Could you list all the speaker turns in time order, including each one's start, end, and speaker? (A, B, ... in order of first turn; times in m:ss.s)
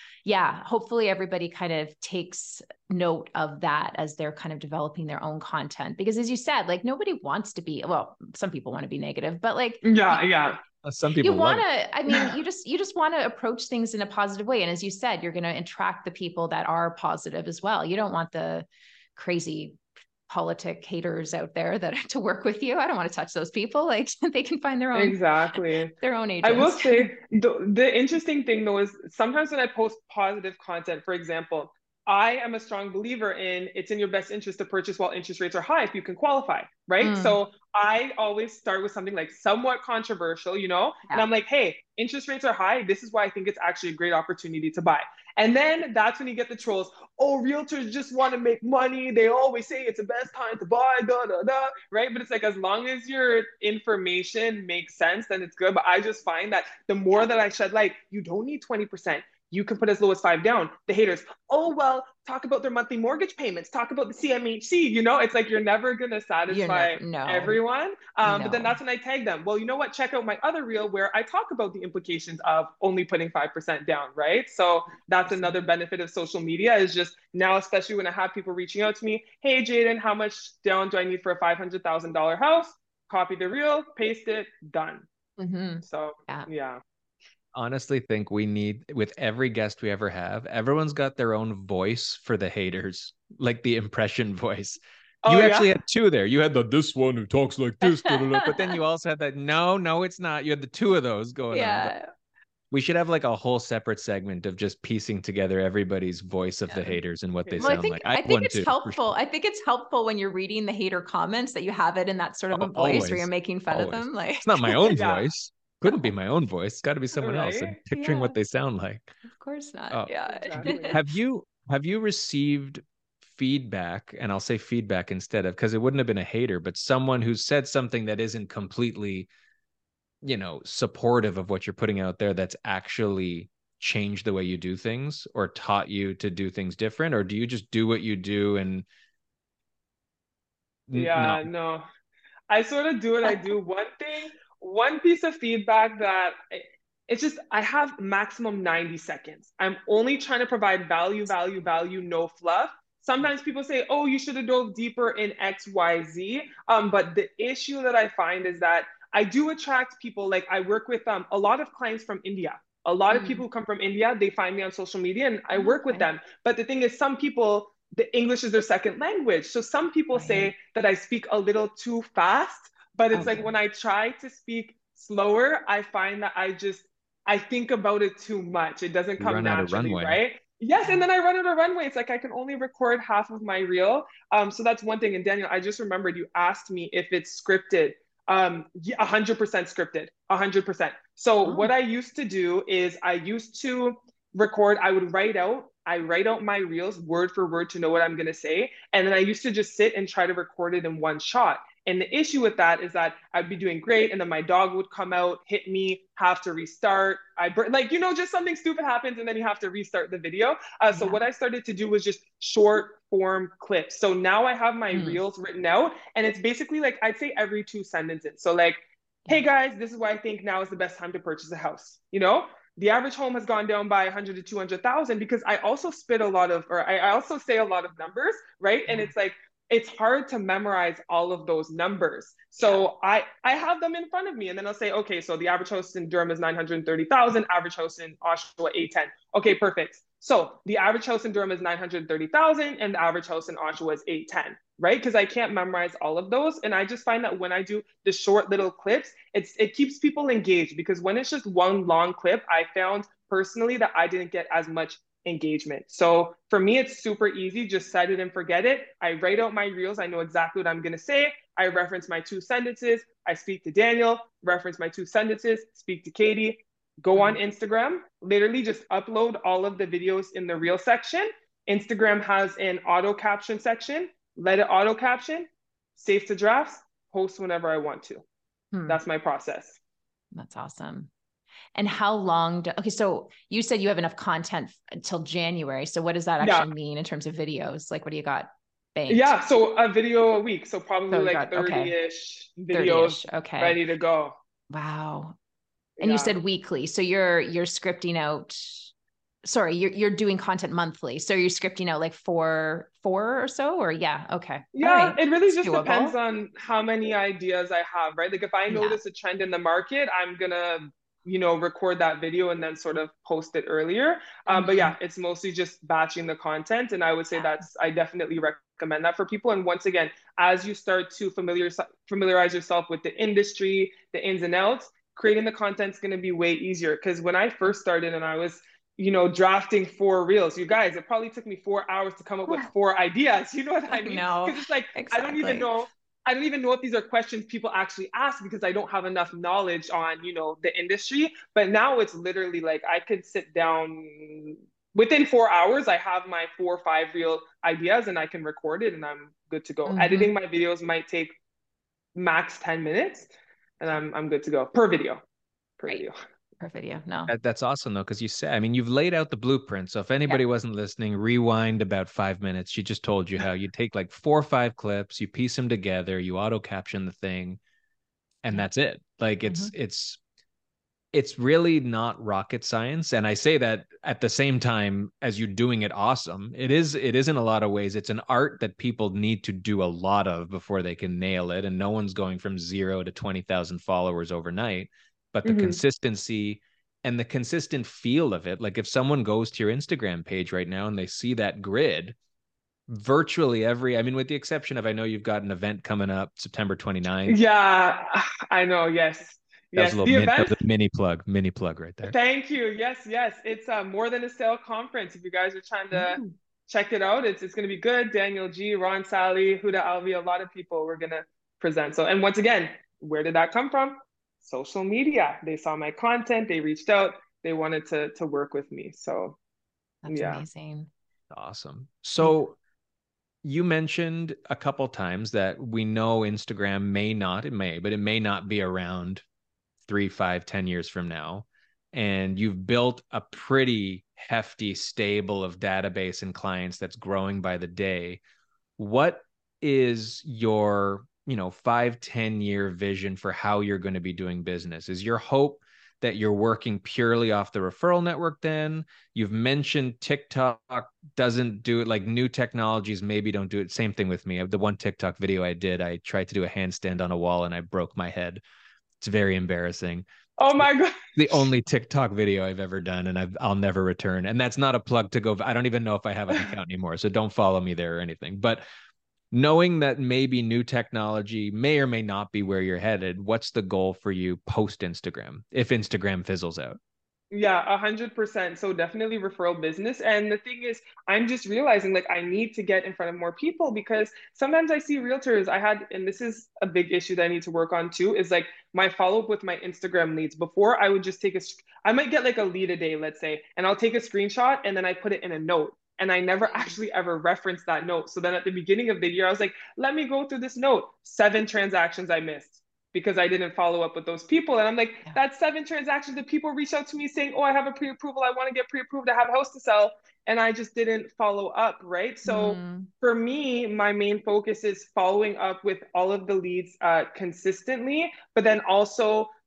0:00.2-0:10.5 A
0:09.8-0:10.6 B
0:10.8-0:11.6 C
0:11.2-0:25.3 A
0:25.0-1:25.1 B
0:25.9-0:27.1 A
0:37.0-0:37.4 A
1:06.5-1:07.6 A
1:08.2-1:08.8 A
1:15.2-1:15.6 A
1:25.4-1:26.5 A
1:25.8-1:26.8 B
1:27.5-1:41.9 C
1:35.2-1:35.7 B
1:37.8-1:38.8 A
1:41.5-1:42.1 A
1:42.7-1:49.1 C
1:46.7-1:47.0 A
1:47.4-1:47.8 B
1:47.6-1:55.0 A
1:52.5-1:59.1 C
1:54.9-1:55.3 B
1:55.9-1:56.1 A
1:57.2-1:57.8 B
1:58.0-1:58.4 A
1:59.3-2:01.0 A
1:59.9-2:09.3 C
2:00.2-2:01.0 B
2:10.2-2:18.9 C
2:20.9-2:21.5 C
2:20.9-2:21.8 B
2:22.5-4:38.2 B
2:43.1-2:43.4 A
2:45.6-2:46.1 A
2:50.1-2:50.5 A
2:53.1-2:53.5 A
2:59.2-3:00.2 C
3:11.4-3:11.7 A
3:30.9-3:31.2 A
3:34.9-3:35.2 A
3:52.6-3:52.8 A
4:38.7-4:39.0 A
4:38.9-4:39.8 B
4:40.3-4:41.1 A
4:41.8-4:49.4 A
4:46.4-4:46.7 B
4:49.1-4:54.4 B
4:51.1-4:51.9 A
4:52.7-4:53.8 A
4:54.7-4:55.4 A
4:56.0-4:56.4 B
4:56.0-4:58.9 A
4:59.4-5:06.2 A
5:04.8-5:51.3 B
5:08.7-5:09.0 A
5:14.5-5:15.0 A
5:17.3-5:17.6 A
5:33.9-5:35.7 A
5:49.9-5:50.3 A
5:52.2-5:55.2 B
5:55.8-5:56.2 B
5:56.6-5:57.3 A
5:57.3-6:07.6 C
6:08.4-6:10.2 C
6:09.4-6:09.7 A
6:11.1-6:32.2 C
6:25.4-6:25.8 B
6:32.9-6:37.4 C
6:37.3-6:40.6 B
6:39.8-6:42.2 C
6:42.0-6:59.4 B
6:45.9-6:46.2 A
7:00.0-7:00.9 A
7:00.1-7:00.4 B
7:01.3-7:02.6 C
7:03.4-7:09.2 C
7:09.9-7:18.2 C
7:18.8-7:38.4 C
7:39.0-7:48.6 C
7:40.4-7:41.5 B
7:49.3-7:56.8 C
7:57.3-8:39.3 B
8:16.5-8:16.8 A
8:32.2-8:32.9 A